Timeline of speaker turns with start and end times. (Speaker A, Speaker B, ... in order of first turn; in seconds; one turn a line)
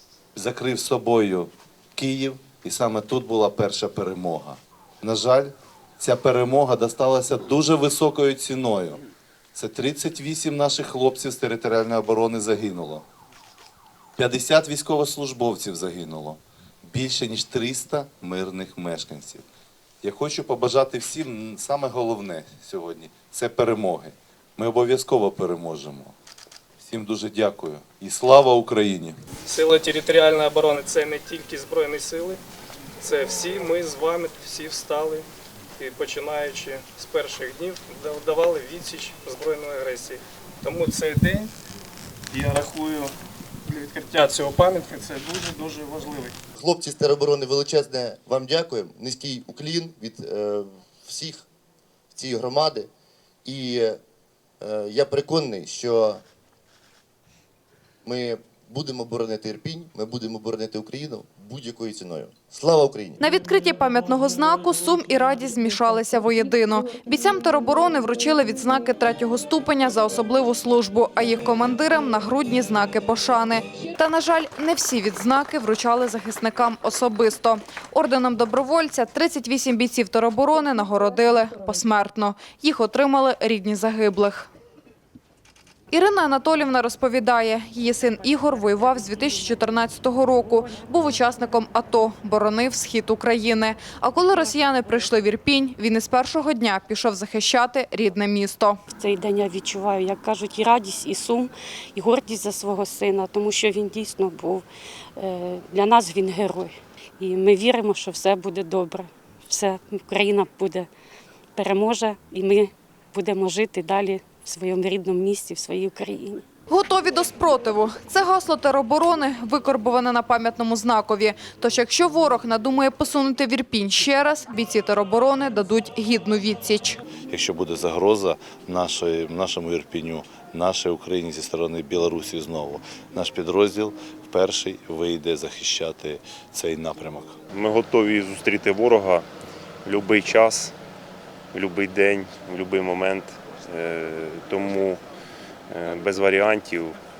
Speaker A: 0.3-9.0
Speaker A: 9.5-13.0
Speaker A: 14.2-19.4
Speaker A: 20.0-26.1
Speaker A: 26.8-29.2
Speaker B: 29.5-32.4
Speaker B: 33.0-35.3
Speaker B: 35.8-41.5
Speaker B: 42.3-43.1
Speaker B: 43.7-46.4
Speaker C: 46.6-51.5
Speaker C: 52.1-52.9
Speaker C: 53.5-54.0
Speaker C: 54.6-56.2
Speaker C: 58.0-63.2
Speaker D: 63.2-84.5
Speaker D: 85.9-98.8
Speaker E: 98.9-104.7
Speaker E: 105.2-110.9
Speaker E: 111.6-116.5
Speaker D: 116.7-127.0
Speaker A: 127.3-137.4
Speaker F: 137.5-139.3
Speaker F: 139.8-140.7
Speaker F: 141.5-145.0
Speaker F: 145.7-147.0